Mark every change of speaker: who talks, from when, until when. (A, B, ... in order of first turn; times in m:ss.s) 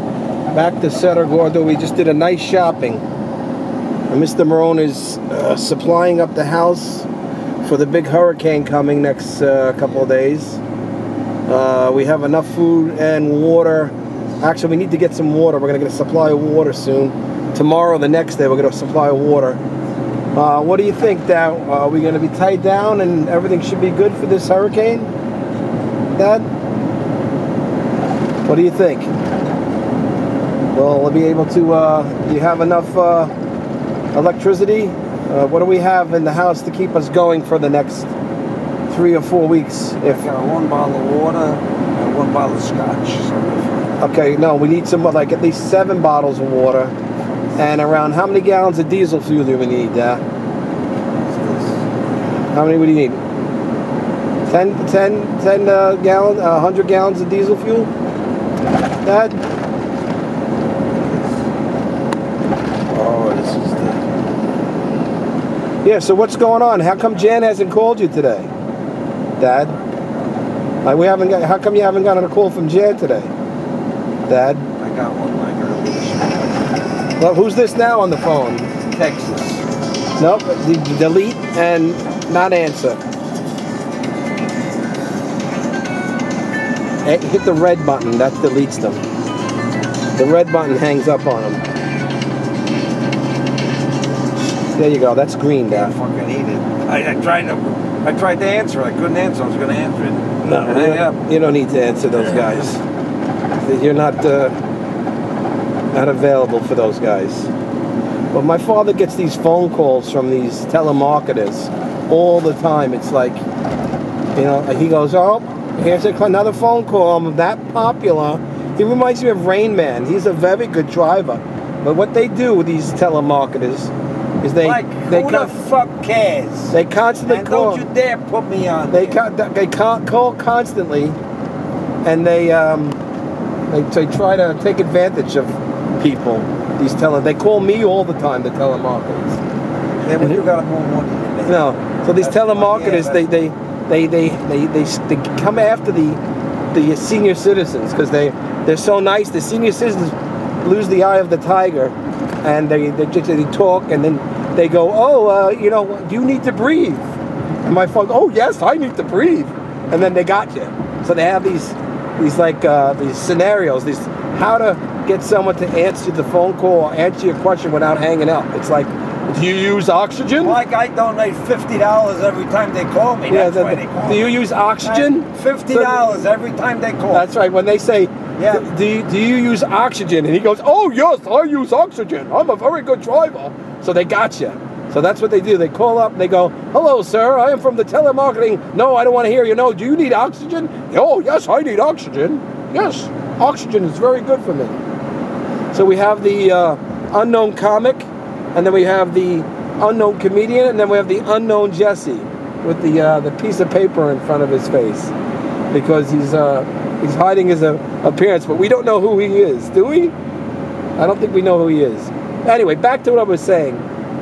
0:00.5-0:03.0 A
0:04.1-0:07.1 A
0:07.6-0:10.6 A
0:11.5-0:19.6 A
0:20.3-0:25.1 A
0:26.1-0:26.5 A
0:28.4-0:29.1 A
0:30.7-0:33.3 A
0:34.1-0:38.1 A
0:38.9-0:40.2 A
0:40.0-0:43.9 B
0:44.0-0:46.9 A
0:47.6-0:50.2 A
0:51.3-0:51.8 B
0:52.5-0:53.2 A
0:54.5-0:57.9 A
0:59.0-0:59.4 A
1:01.0-1:01.3 B
1:02.9-1:04.0 B
1:05.8-1:08.5 A
1:09.4-1:09.8 A
1:10.8-1:13.3 A
1:14.3-1:14.7 A
1:14.8-1:16.7 B
1:17.2-1:18.8 A
1:18.8-1:19.6 B
1:20.2-1:23.0 A
1:27.0-1:29.0 A
1:30.1-1:31.6 A
1:34.7-1:35.9 A
1:35.7-1:41.2 B
1:40.4-1:42.8 A
1:43.6-1:44.6 A
1:45.9-1:47.5 A
1:48.3-1:53.4 A
1:54.4-2:03.9 A
2:04.4-2:05.5 A
2:04.6-2:09.2 B
2:06.7-2:07.9 A
2:08.9-2:11.2 A
2:12.0-2:13.0 A
2:13.7-2:19.4 A
2:20.0-2:23.4 B
2:21.5-2:26.2 A
2:26.7-2:37.1 A
2:37.6-2:50.6 A
2:50.4-2:57.3 B
2:53.3-2:56.0 A
2:57.1-3:14.8 A
2:58.4-2:58.7 B
3:15.7-3:25.1 A
3:25.7-3:30.1 A
3:31.0-3:33.8 A